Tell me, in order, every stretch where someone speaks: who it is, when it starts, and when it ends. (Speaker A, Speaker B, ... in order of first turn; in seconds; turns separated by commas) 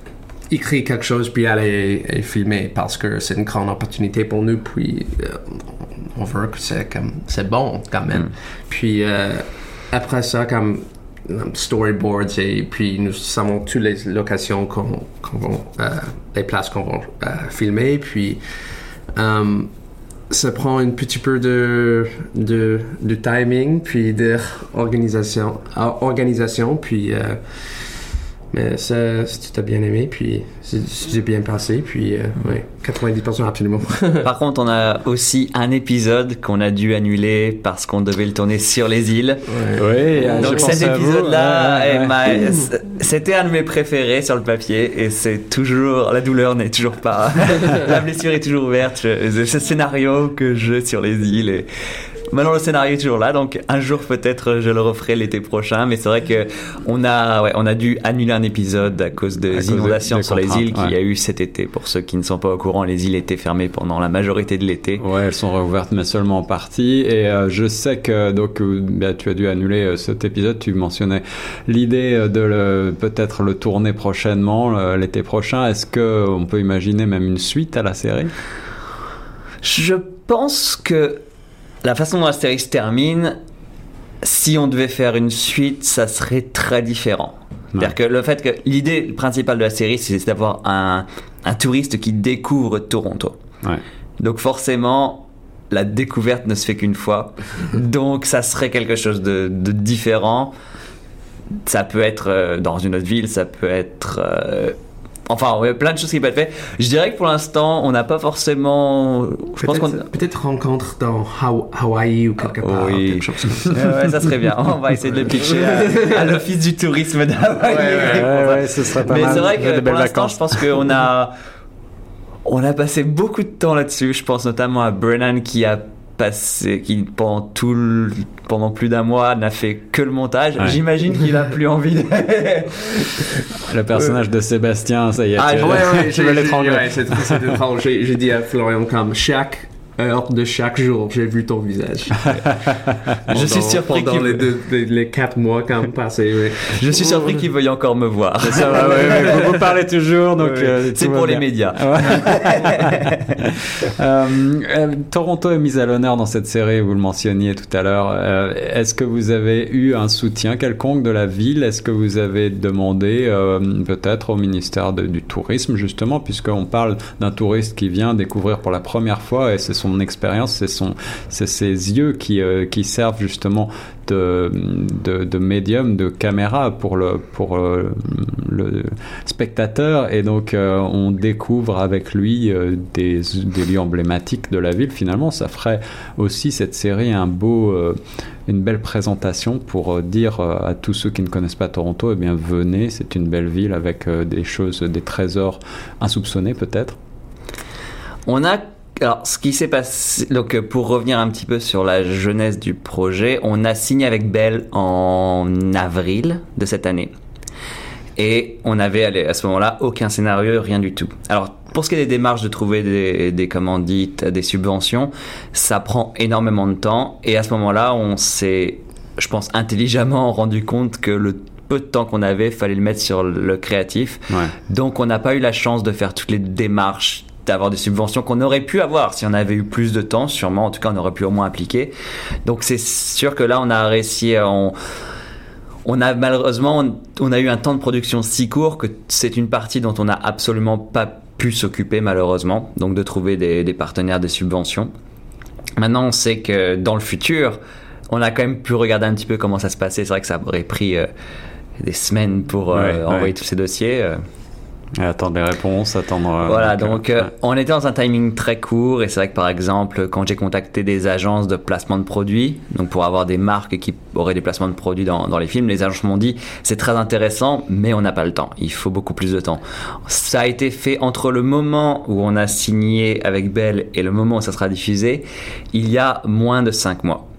Speaker A: 0.5-18.4, Speaker A: 19.1-19.7, Speaker A: 20.3-27.9, Speaker A: 28.5-34.3, Speaker B: 34.2-39.5, Speaker A: 39.5-40.8, Speaker C: 39.8-42.2, Speaker B: 40.4-51.7, Speaker B: 52.3-65.0, Speaker C: 59.5-60.9, Speaker C: 65.0-78.3, Speaker B: 79.6-81.2, Speaker B: 81.8-83.4, Speaker B: 84.2-93.3, Speaker B: 94.2-100.5, Speaker B: 101.7-104.8, Speaker B: 105.3-110.0, Speaker A: 109.6-113.8, Speaker B: 112.6-121.3, Speaker A: 115.5-116.0, Speaker A: 117.7-118.3, Speaker C: 118.1-120.7, Speaker B: 122.4-133.2, Speaker C: 133.6-137.6, Speaker B: 135.4-135.8, Speaker A: 135.6-142.5, Speaker A: 143.3-147.2, Speaker B: 143.3-144.4, Speaker B: 146.6-149.5, Speaker C: 148.4-196.9, Speaker A: 148.7-149.5, Speaker B: 150.4-153.3, Speaker B: 198.2-207.1, Speaker B: 208.2-231.9, Speaker B: 232.4-234.8, Speaker B: 235.8-244.9, Speaker B: 245.8-247.6, Speaker B: 248.1-251.1, Speaker B: 251.8-254.2, Speaker C: 252.7-253.3, Speaker C: 254.9-257.3, Speaker B: 256.4-277.2